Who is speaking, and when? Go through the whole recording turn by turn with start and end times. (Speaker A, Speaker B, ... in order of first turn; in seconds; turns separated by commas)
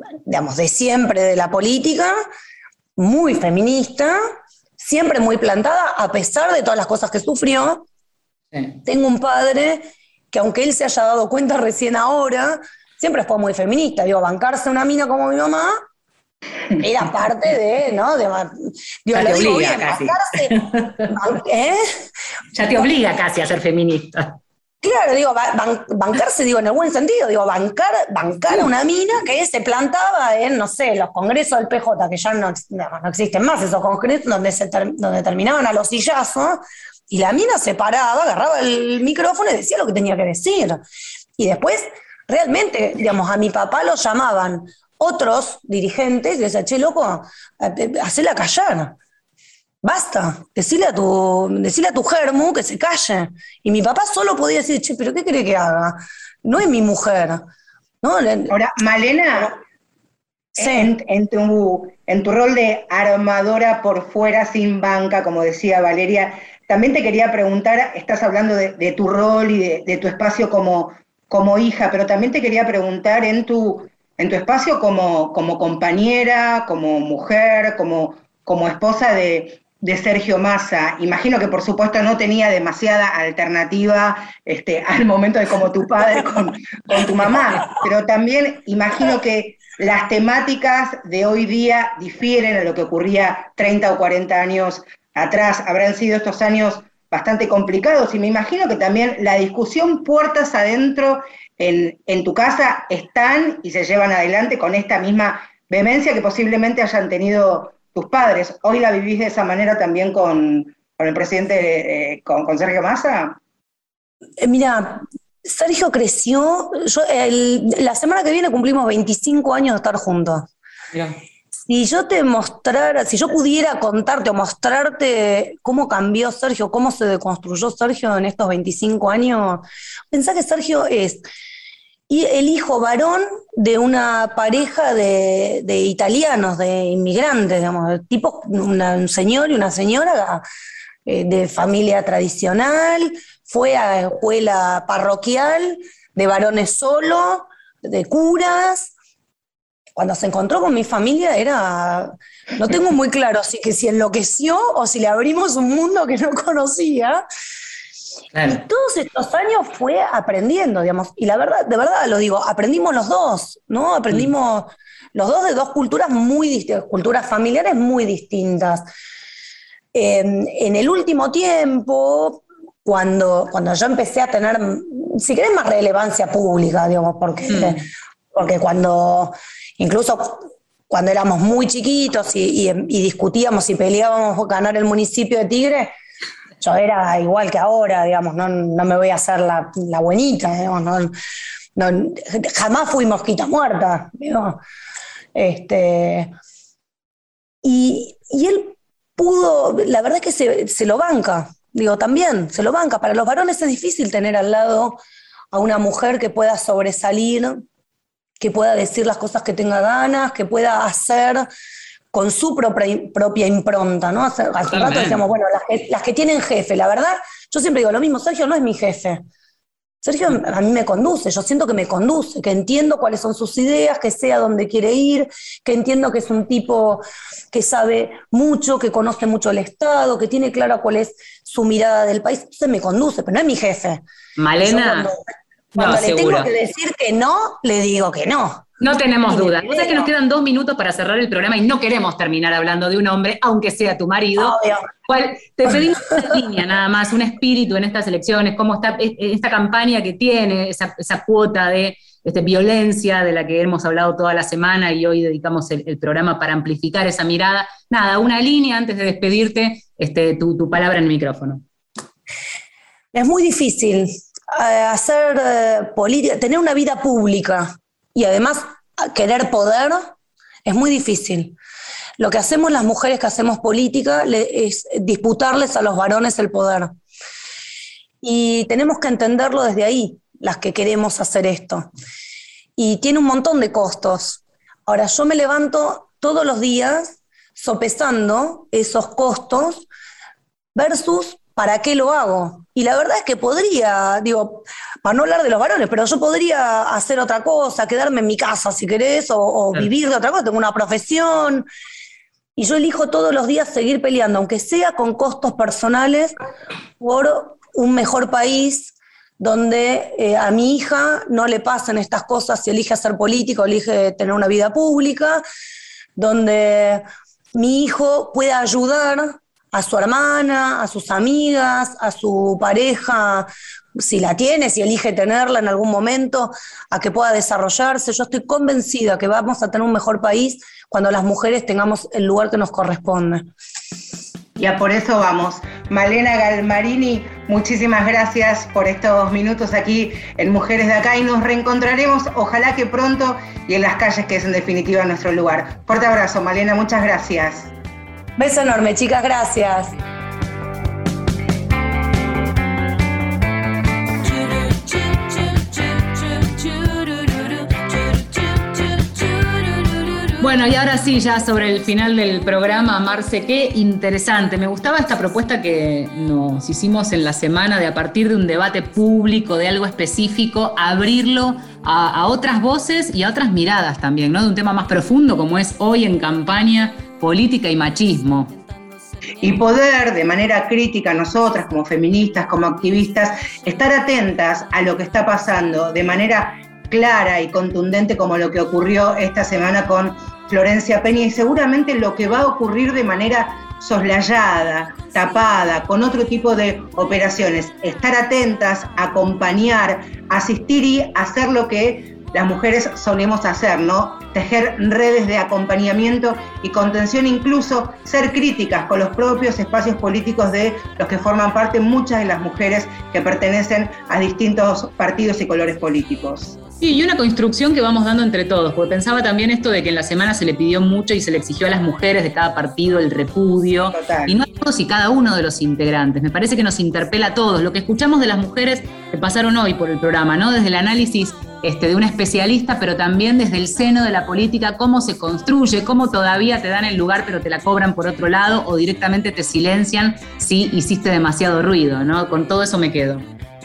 Speaker A: 0.3-2.1, Speaker A: 3.0-4.2, Speaker A: 4.8-7.8, Speaker A: 8.8-15.8, Speaker A: 16.8-21.8, Speaker B: 19.1-21.1, Speaker B: 22.5-24.4, Speaker A: 24.8-40.8, Speaker A: 41.4-49.0, Speaker A: 49.8-57.4, Speaker A: 58.0-58.5, Speaker C: 58.5-59.6, Speaker A: 60.6-60.9, Speaker C: 60.6-113.4, Speaker A: 114.4-120.5, Speaker B: 120.9-121.2, Speaker A: 121.7-131.2, Speaker A: 132.1-140.4, Speaker A: 141.1-148.9, Speaker A: 150.0-157.2, Speaker B: 158.3-158.6, Speaker A: 158.5-168.8, Speaker A: 169.9-185.9, Speaker B: 177.5-177.8, Speaker A: 186.6-191.1, Speaker A: 191.8-194.6, Speaker A: 195.3-196.3, Speaker A: 197.6-205.0, Speaker A: 205.5-207.6, Speaker A: 208.4-211.5, Speaker A: 212.1-219.2, Speaker B: 214.7-215.2, Speaker A: 220.0-234.0, Speaker B: 234.4-235.1, Speaker A: 234.6-235.2, Speaker A: 235.8-238.7, Speaker B: 235.8-236.5, Speaker B: 238.8-261.6, Speaker A: 239.3-240.1, Speaker A: 244.4-244.9, Speaker A: 263.1-270.1, Speaker A: 270.7-271.6, Speaker A: 272.2-276.9, Speaker A: 278.2-281.9, Speaker A: 282.8-289.9, Speaker A: 290.8-301.7, Speaker A: 302.6-306.4, Speaker A: 307.0-315.4, Speaker A: 316.2-317.0, Speaker A: 317.6-333.5, Speaker C: 334.6-347.7, Speaker A: 348.4-349.9, Speaker B: 360.4-378.5, Speaker C: 379.4-416.5, Speaker B: 416.8-443.3, Speaker C: 423.9-424.4